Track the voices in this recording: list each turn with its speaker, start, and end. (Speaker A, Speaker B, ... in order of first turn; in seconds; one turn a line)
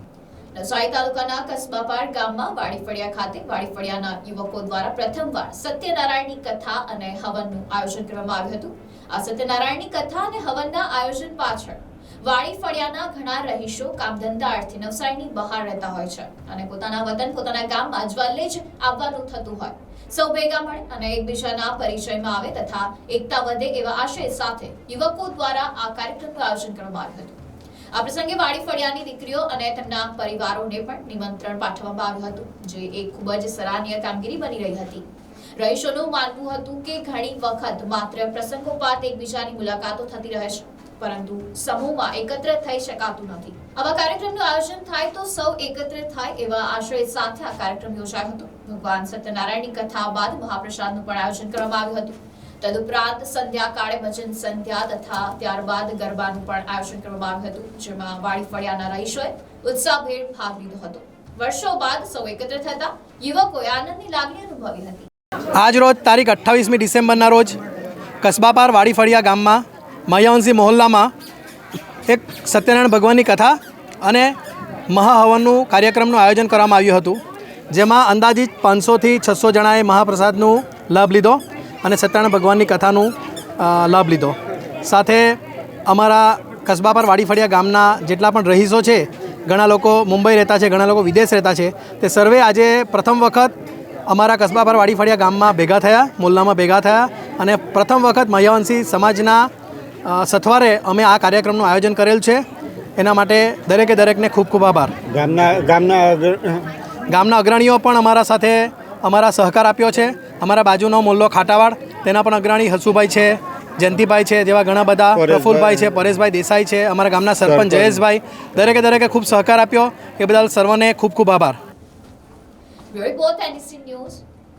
Speaker A: 0.5-27.4
Speaker A: 27.9-35.0
Speaker A: 35.6-65.1
Speaker B: 65.5-67.6
Speaker B: 68.2-71.1
Speaker B: 72.1-74.3
Speaker B: 74.9-93.5
Speaker B: 94.1-99.5
Speaker B: 100.0-102.4
Speaker B: 103.0-105.0
Speaker C: 105.1-106.7
Speaker B: 107.1-121.6
Speaker C: 115.2-115.9
Speaker C: 117.4-118.0
Speaker A: 122.9-124.2